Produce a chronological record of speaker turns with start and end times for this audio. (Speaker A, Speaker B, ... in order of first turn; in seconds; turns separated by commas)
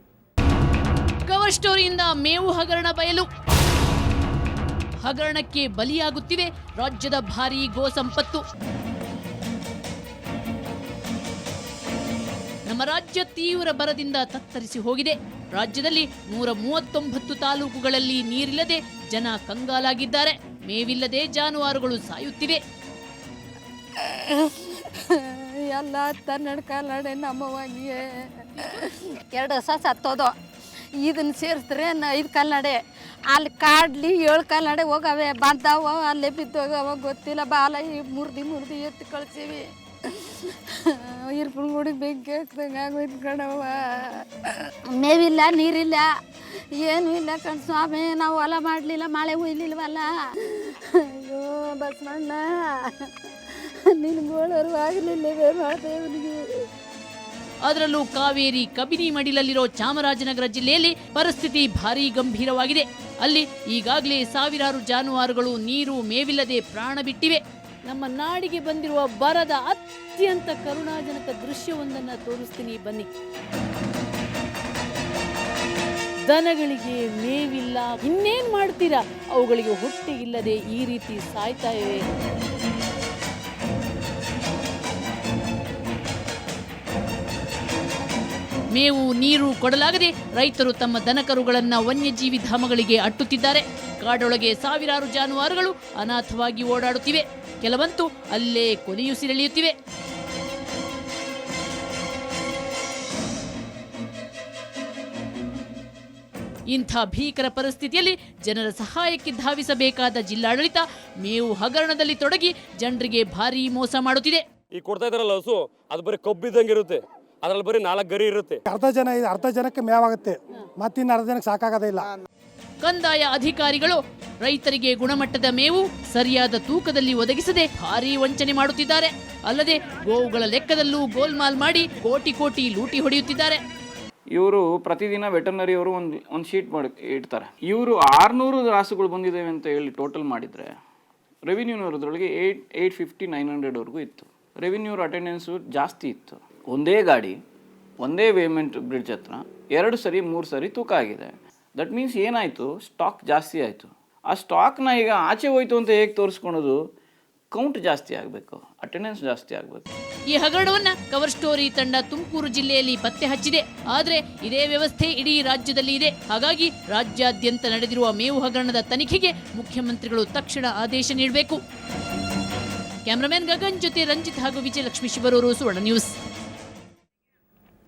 Speaker A: 1.3-3.3, Speaker A: 5.0-8.4, Speaker A: 12.7-22.6, Speaker B: 24.0-30.4, Speaker B: 31.0-46.2, Speaker B: 46.7-56.7, Speaker A: 57.6-73.1, Speaker A: 76.3-82.0, Speaker A: 88.8-99.8, Speaker A: 106.7-114.5, Speaker C: 114.7-118.6, Speaker D: 118.7-122.1, Speaker A: 122.8-133.6, Speaker E: 134.3-140.7, Speaker E: 141.5-147.4, Speaker E: 148.0-156.8, Speaker E: 157.5-159.9, Speaker A: 160.3-171.6, Speaker A: 173.1-176.1